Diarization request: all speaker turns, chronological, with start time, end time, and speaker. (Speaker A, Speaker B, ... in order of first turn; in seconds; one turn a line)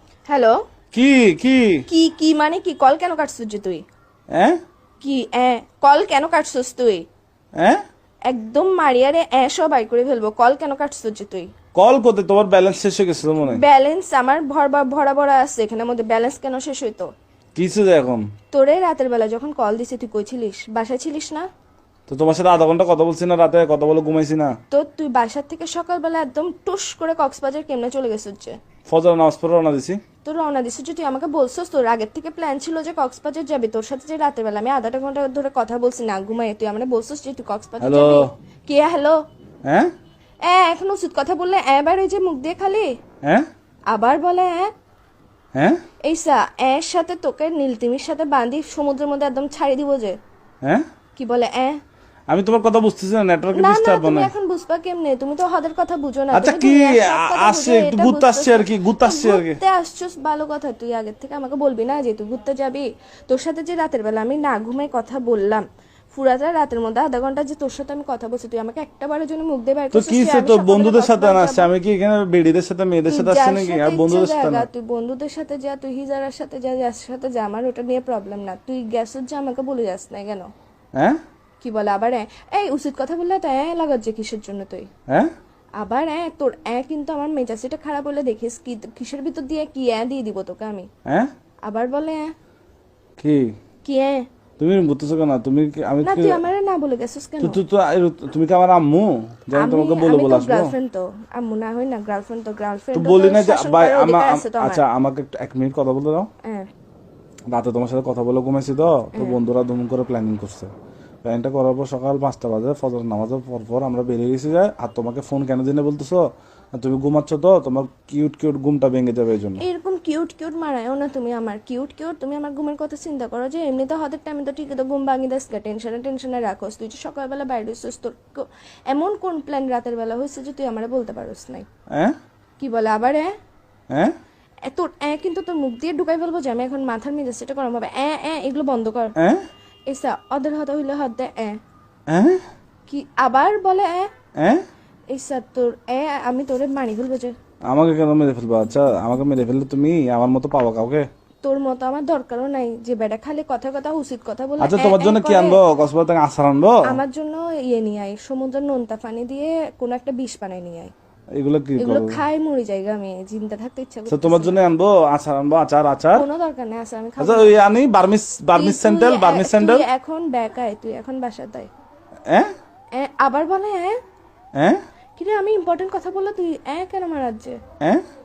Speaker A: 0.3-0.6
Speaker B: 0.9-1.8
Speaker A: 1.9-3.8
Speaker A: 5.0-7.0
Speaker A: 8.3-11.5
Speaker B: 11.8-13.6
Speaker A: 13.4-17.1
Speaker B: 17.6-18.2
Speaker A: 18.5-21.4
Speaker B: 22.1-24.5
Speaker A: 24.7-28.6
Speaker B: 28.9-30.0
Speaker A: 30.2-39.2
Speaker B: 37.8-38.3
Speaker A: 40.5-42.9
Speaker A: 43.9-44.7
Speaker A: 46.0-50.2
Speaker A: 51.2-51.8
Speaker B: 52.3-54.3
Speaker A: 53.5-71.7
Speaker B: 56.3-59.6
Speaker B: 69.9-74.7
Speaker A: 73.1-80.5
Speaker A: 81.6-84.9
Speaker A: 85.8-90.9
Speaker A: 91.7-92.3
Speaker B: 93.2-93.5
Speaker A: 93.8-94.2
Speaker B: 94.6-96.4
Speaker A: 96.0-97.6
Speaker B: 97.4-100.7
Speaker A: 99.6-104.8
Speaker B: 103.0-106.3
Speaker B: 107.5-110.7
Speaker B: 111.2-116.2
Speaker B: 116.8-119.6
Speaker A: 119.6-131.7
Speaker A: 132.6-133.3
Speaker A: 134.7-139.1
Speaker A: 139.9-141.6
Speaker B: 142.1-142.4
Speaker A: 142.9-144.1
Speaker A: 145.1-147.3
Speaker B: 147.7-151.1
Speaker A: 151.4-155.6
Speaker B: 154.6-156.8
Speaker A: 156.9-160.9
Speaker B: 161.4-162.2
Speaker A: 161.8-164.6
Speaker B: 164.1-166.2
Speaker A: 166.1-167.6
Speaker B: 167.2-169.8
Speaker A: 168.6-171.7
Speaker A: 173.0-174.0
Speaker A: 175.2-177.6